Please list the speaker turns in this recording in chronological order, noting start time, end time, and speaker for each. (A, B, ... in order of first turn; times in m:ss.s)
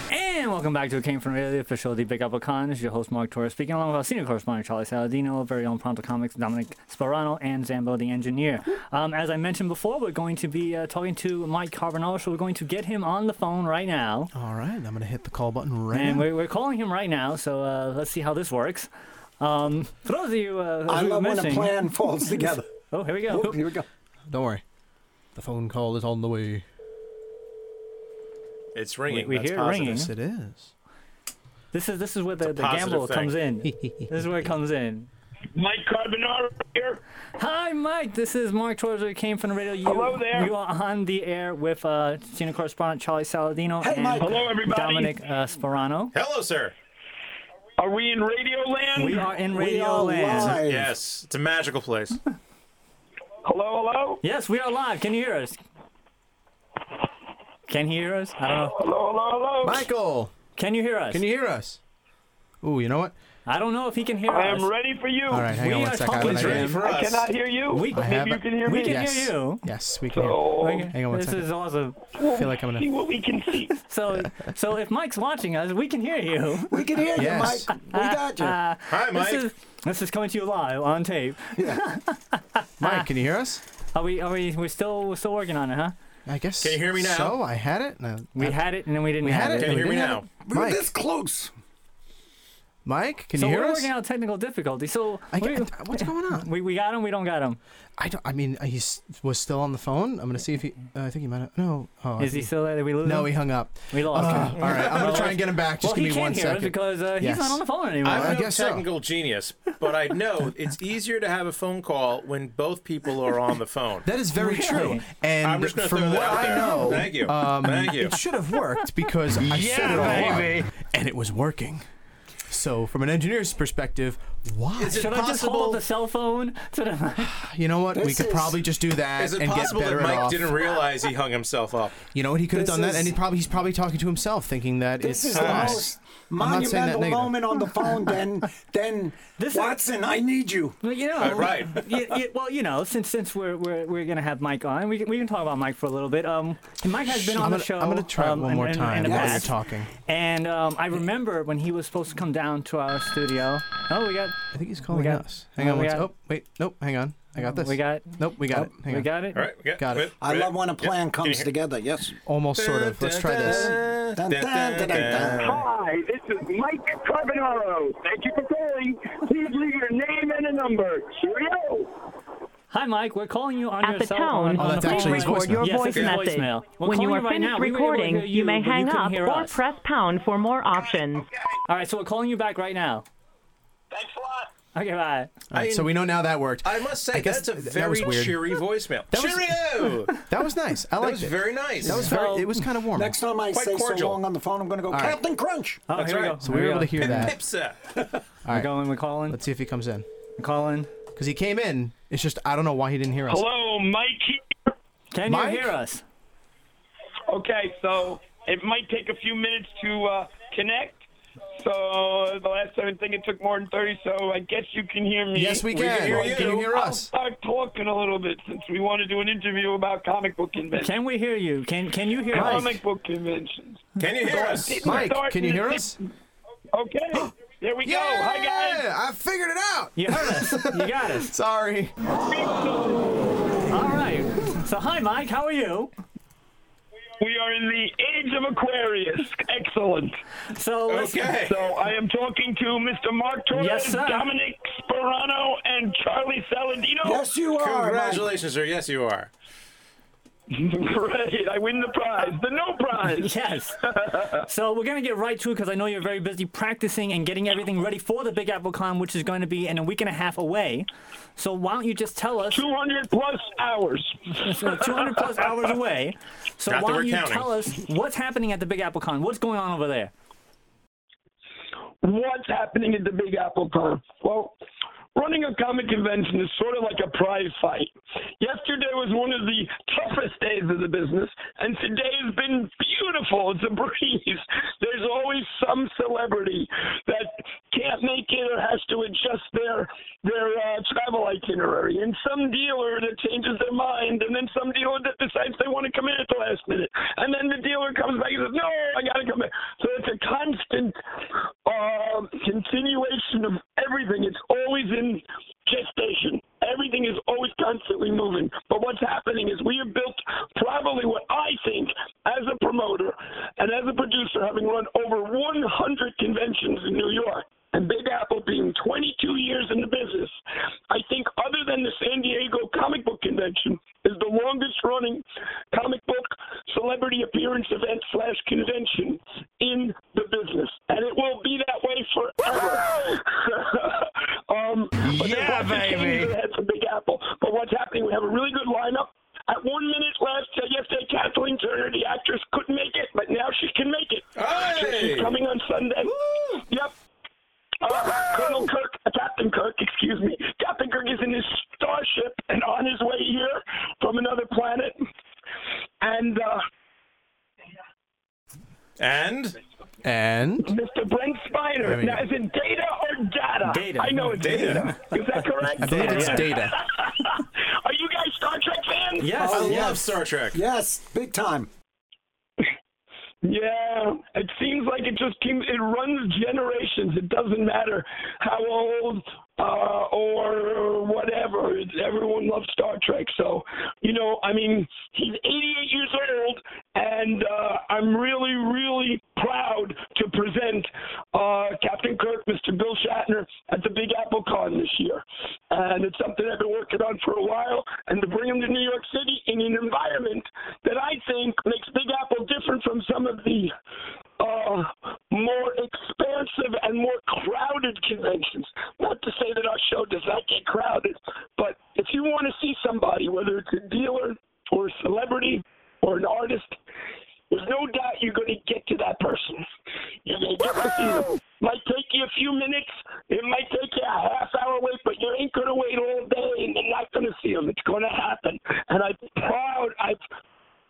0:00.1-0:14.3 A
0:14.3-0:16.3 B
0:15.9-0:18.9 A
0:19.4-0:21.9 A
0:20.9-0:22.7 C
0:22.9-0:23.5 A
0:23.3-0:23.9 C
0:24.3-0:24.6 B
0:25.4-0:26.6 B
0:28.8-0:30.1 D
0:29.1-0:30.1 A
0:29.8-0:30.7 B
0:31.7-0:35.1 A
0:32.4-0:33.3 D
0:33.7-0:34.1 B
0:35.6-0:37.0 E
0:37.4-0:46.2 A
0:39.8-0:40.5 E
0:43.8-0:44.5 C
0:44.2-0:45.1 E
0:46.1-0:46.8 D
0:47.8-0:49.3 E
0:49.0-0:50.6 A
0:49.5-0:50.9 C
0:50.4-0:52.2 D
0:53.4-0:54.2 E
0:54.2-0:55.6 A
0:57.7-0:58.8 A
0:58.6-0:59.9 E
0:59.6-1:00.3 B
1:00.6-1:01.2 A
1:01.1-1:01.8 B
1:02.6-1:03.1 B
1:03.5-1:04.7 A
1:04.3-1:05.5 E
1:05.3-1:06.7 B
1:05.5-1:06.8 A
1:06.2-1:07.3 D
1:06.8-1:09.0 E
1:07.7-1:09.6 A
1:07.9-1:11.5 B
1:10.1-1:10.9 E
1:10.6-1:12.0 A
1:12.2-1:13.7 E
1:12.4-1:12.9 B
1:13.8-1:16.8 A
1:16.7-1:18.6 C
1:17.2-1:17.7 B
1:17.8-1:23.1 A
1:18.9-1:19.5 D
1:21.6-1:21.8 C
1:22.8-1:23.6 B
1:23.9-1:26.0 A
1:26.3-1:28.7 B
1:26.6-1:27.4 D
1:28.4-1:29.9 A
1:29.2-1:30.9 B
1:29.5-1:30.3 D
1:30.4-1:31.5 C
1:32.8-1:33.9 B
1:33.4-1:37.6 A
1:35.3-1:36.5 B
1:38.0-1:48.9 B
1:42.2-1:48.4 A
1:44.2-1:45.4 D
1:48.0-1:54.1 D
1:54.0-2:01.8 B
1:54.4-1:55.0 A
1:55.4-1:58.2 D
1:56.6-1:56.9 A
1:59.5-2:00.6 A
2:02.5-2:05.7 B
2:04.8-2:05.8 D
2:04.8-2:07.3 A
2:07.2-2:10.7 B
2:07.9-2:08.6 C
2:09.2-2:12.1 D
2:12.1-2:17.6 B
2:12.5-2:13.2 C
2:15.0-2:20.8 C
2:15.3-2:15.9 D
2:19.4-2:19.8 A
2:20.8-2:29.5 A
2:21.2-2:21.8 D
2:27.1-2:29.9 B
2:29.0-2:29.5 C
2:30.1-2:36.1 A
2:34.5-2:39.1 B
2:37.4-2:39.4 A
2:39.3-2:41.5 D
2:39.8-2:40.1 B
2:40.2-2:42.2 C
2:42.3-2:43.8 B
2:42.6-2:45.6 D
2:43.4-2:45.6 C
2:45.2-2:51.9 E
2:52.7-2:59.6 A
2:53.8-3:01.3 F
2:54.6-2:55.9 B
3:01.7-3:03.1 A
3:03.9-3:04.5 E
3:04.7-3:05.3 A
3:05.5-3:08.6 B
3:05.5-3:06.1 D
3:06.6-3:10.2 D
3:09.1-3:13.2 B
3:11.0-3:12.1 D
3:11.9-3:12.6 A
3:12.9-3:15.8 C
3:13.5-3:14.2 D
3:14.9-3:15.2 B
3:15.9-3:17.3 A
3:15.9-3:16.4 D
3:16.4-3:17.4 B
3:17.0-3:17.8 D
3:18.4-3:20.1 B
3:18.5-3:19.4 A
3:20.4-3:20.9 A
3:21.2-3:23.5 B
3:23.3-3:24.7 E
3:25.1-3:26.0 A
3:25.3-3:25.7 B
3:27.3-3:31.0 E
3:31.6-3:40.9 E
3:35.3-3:37.1 B
3:35.7-3:36.7 D
3:40.8-3:42.8 A
3:42.3-3:46.0 E
3:42.4-3:42.7 B
3:44.0-3:45.1 D
3:44.8-3:46.0 B
3:46.7-3:48.8 E
3:47.8-3:51.9 B
3:50.0-3:51.3 A
3:52.2-3:53.3 E
3:53.7-3:55.9 A
3:57.2-4:00.2 E
4:00.5-4:01.4 A
4:00.9-4:01.7 D
4:01.3-4:07.2 E
4:03.5-4:04.3 A
4:07.0-4:08.3 C
4:07.6-4:09.3 D
4:10.5-4:14.4 E
4:13.1-4:13.8 A
4:14.4-4:22.6 A
4:22.5-4:25.2 E
4:24.4-4:30.1 A
4:26.7-4:27.5 D
4:32.0-4:34.5 E
4:35.2-5:01.0 E
5:01.7-5:20.4 E
5:20.9-5:46.9 E
5:35.1-5:36.3 B
5:44.4-5:45.4 D
5:47.8-5:55.0 E
5:56.0-5:56.6 E
5:59.0-5:59.6 D
6:00.0-6:00.7 B
6:00.6-6:09.4 E
6:01.8-6:02.2 B
6:03.6-6:04.9 A
6:04.4-6:05.0 D
6:05.8-6:06.8 B
6:05.8-6:06.5 A
6:09.2-6:10.0 A
6:09.4-6:11.7 C
6:09.4-6:10.6 D
6:13.4-6:43.7 E
6:44.4-6:56.8 E
6:57.5-6:59.7 E
7:00.2-7:10.2 E